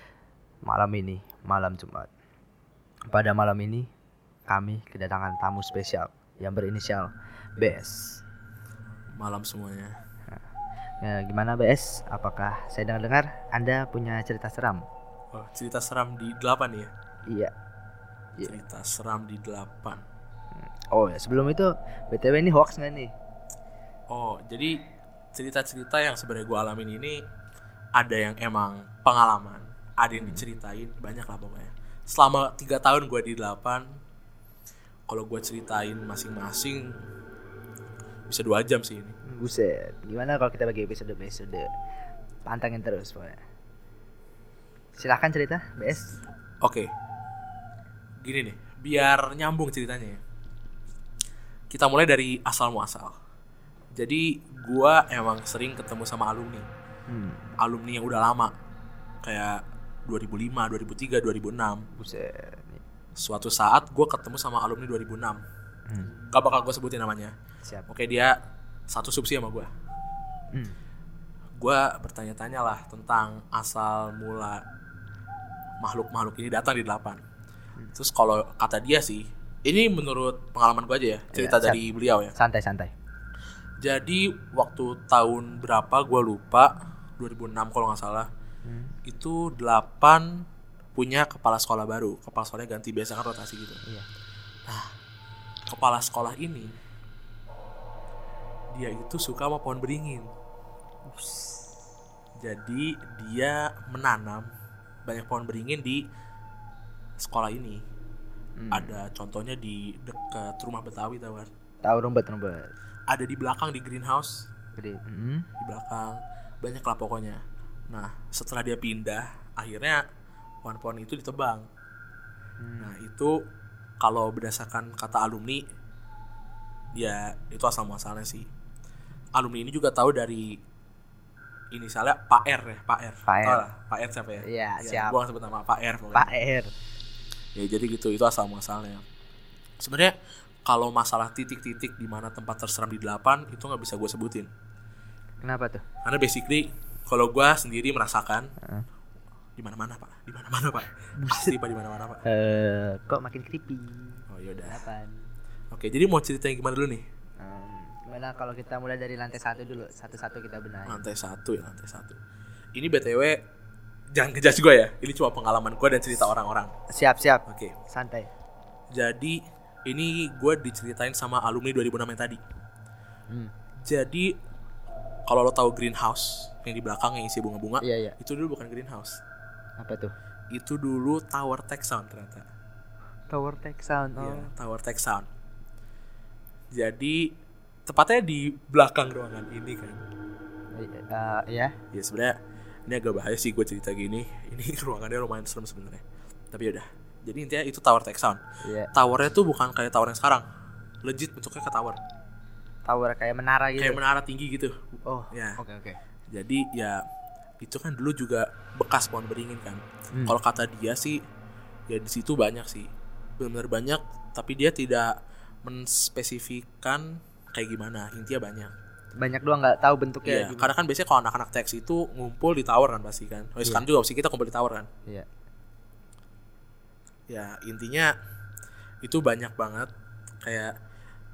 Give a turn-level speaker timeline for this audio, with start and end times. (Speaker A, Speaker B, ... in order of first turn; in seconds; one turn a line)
Speaker A: 0.6-2.1
Speaker A: 3.1-3.9
Speaker A: 4.5-8.2
Speaker B: 9.2-9.9
Speaker A: 11.0-14.8
Speaker B: 15.3-16.9
Speaker B: 18.4-20.0
Speaker A: 20.6-23.1
Speaker B: 24.1-24.8
Speaker B: 25.3-27.2
Speaker B: 28.0-33.9
Speaker A: 30.1-30.4
Speaker B: 35.1-37.0
Speaker B: 38.3-39.2
Speaker A: 39.3-41.7
Speaker A: 42.5-43.4
Speaker A: 45.0-46.1
Speaker B: 46.6-46.9
Speaker B: 48.2-50.2
Speaker B: 51.7-53.1
Speaker B: 53.9-56.7
Speaker A: 57.1-57.5
Speaker B: 57.6-58.5
Speaker B: 59.2-61.9
Speaker A: 62.0-62.8
Speaker B: 63.2-65.4
Speaker B: 66.2-67.3
Speaker B: 67.9-68.3
Speaker B: 68.9-69.7
Speaker B: 71.6-74.6
Speaker B: 75.8-77.2
Speaker B: 77.9-82.3
Speaker A: 81.3-81.8
Speaker A: 82.3-82.9
Speaker B: 83.8-88.3
Speaker A: 88.6-88.9
Speaker B: 89.0-90.4
Speaker B: 90.9-93.8
Speaker B: 94.7-94.9
Speaker B: 95.7-96.8
Speaker B: 98.7-100.3
Speaker A: 101.1-101.7
Speaker B: 102.4-104.5
Speaker B: 105.0-106.0
Speaker B: 107.2-107.8
Speaker A: 108.6-109.0
Speaker B: 108.7-111.5
Speaker A: 111.8-112.7
Speaker B: 113.1-114.5
Speaker A: 114.8-115.5
Speaker B: 115.6-120.0
Speaker B: 120.6-121.7
Speaker A: 122.6-122.9
Speaker B: 122.8-123.4
Speaker B: 124.0-125.6
Speaker B: 126.9-128.5
Speaker B: 129.3-130.6
Speaker B: 131.7-136.3
Speaker A: 133.3-133.6
Speaker A: 134.4-135.2
Speaker A: 136.1-136.7
Speaker B: 137.5-139.0
Speaker B: 139.8-140.1
Speaker B: 140.6-144.5
Speaker A: 145.4-145.8
Speaker B: 146.0-148.5
Speaker A: 148.6-148.8
Speaker B: 149.6-152.2
Speaker A: 151.2-151.6
Speaker A: 152.2-155.2
Speaker B: 154.3-154.8
Speaker B: 155.7-157.0
Speaker A: 157.4-161.1
Speaker B: 160.9-162.2
Speaker B: 162.7-163.4
Speaker B: 164.1-166.7
Speaker A: 166.9-168.3
Speaker B: 167.5-167.7
Speaker B: 168.9-172.4
Speaker B: 173.8-174.3
Speaker B: 175.3-179.2
Speaker A: 177.8-178.2
Speaker A: 179.8-180.1
Speaker B: 180.5-182.5
Speaker A: 183.3-184.5
Speaker B: 184.2-185.3
Speaker B: 186.7-187.3
Speaker B: 187.9-190.0
Speaker A: 190.7-191.7
Speaker B: 191.9-192.3
Speaker B: 192.9-198.4
Speaker A: 198.6-198.9
Speaker B: 198.9-200.4
Speaker B: 201.0-202.0
Speaker A: 202.8-204.0
Speaker B: 203.8-205.6
Speaker A: 205.1-206.0
Speaker B: 206.3-207.0
Speaker B: 207.6-211.2
Speaker B: 211.9-218.7
Speaker A: 219.2-220.7
Speaker B: 220.2-224.9
Speaker B: 227.3-228.1
Speaker B: 229.0-229.9
Speaker B: 230.4-230.7